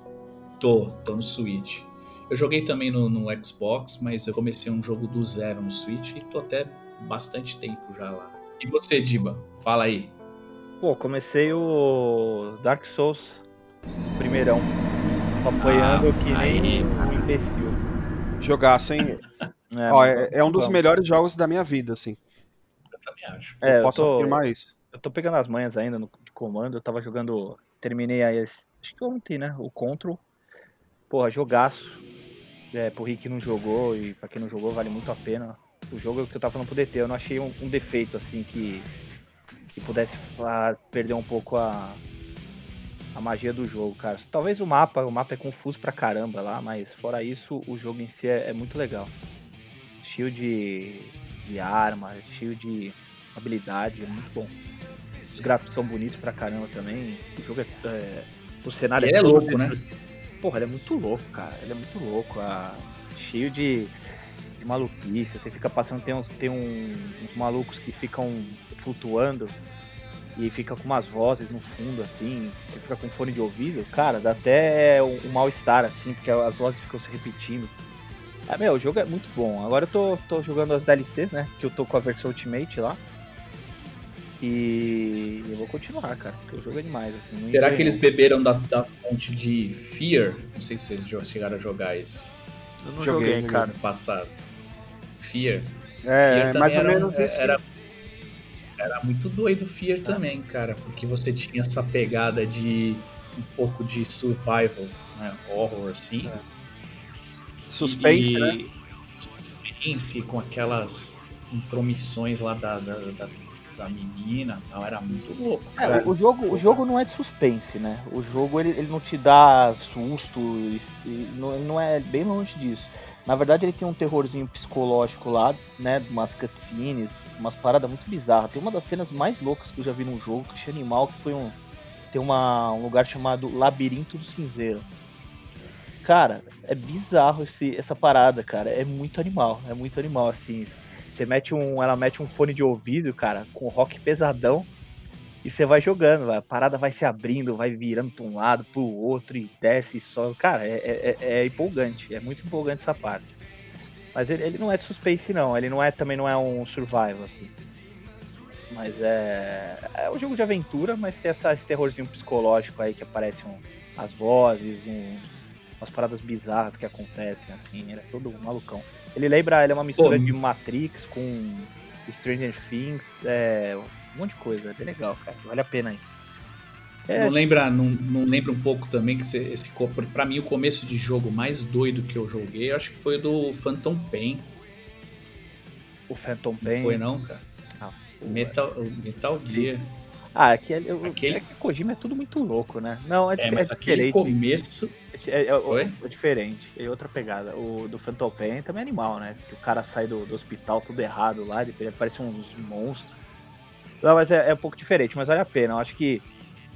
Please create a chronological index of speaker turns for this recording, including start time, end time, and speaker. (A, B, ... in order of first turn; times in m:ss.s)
0:00.6-0:10.1 A
0:10.8-0:13.4 B
0:14.2-0:14.7 B
0:15.4-0:17.8 B
0:15.6-0:17.2 A
0:18.4-0:19.2 C
0:19.7-0:20.8 B
0:19.9-0:22.2 C
0:22.9-0:23.6 A
0:23.6-0:24.4 B
0:23.6-0:24.7 C
0:24.9-0:30.2 B
0:31.1-0:32.0 B
0:32.7-0:38.9 B
0:39.7-0:42.0 B
0:43.1-0:49.1 B
0:50.0-0:54.5 B
0:55.3-1:03.9 B
0:59.0-0:59.8 A
1:04.6-1:09.6 B
1:10.4-1:17.7 B
1:18.5-1:23.0 B
1:24.4-1:28.0 B
1:27.4-1:32.3 A
1:32.8-1:33.7 B
1:33.0-1:33.6 C
1:33.5-1:34.3 A
1:35.2-1:37.6 A
1:36.0-1:37.6 C
1:38.8-1:46.4 A
1:47.7-1:48.6 C
1:47.8-1:56.6 A
1:55.8-2:11.6 B
2:12.1-2:14.9 B
2:16.0-2:24.7 B
2:25.4-2:33.3 B
2:34.1-2:37.5 B
2:38.7-2:45.3 B
2:45.8-2:56.0 B
2:50.0-2:50.4 A
2:57.1-2:57.4 B
2:57.1-3:04.5 A
3:06.1-3:07.0 B
3:06.6-3:07.4 A
3:07.8-3:08.6 B
3:08.2-3:09.9 A
3:09.5-3:09.8 B
3:10.3-3:14.2 B
3:11.0-3:11.4 A
3:13.4-3:15.0 A
3:15.1-3:23.1 B
3:15.7-3:16.0 A
3:24.0-3:26.2 B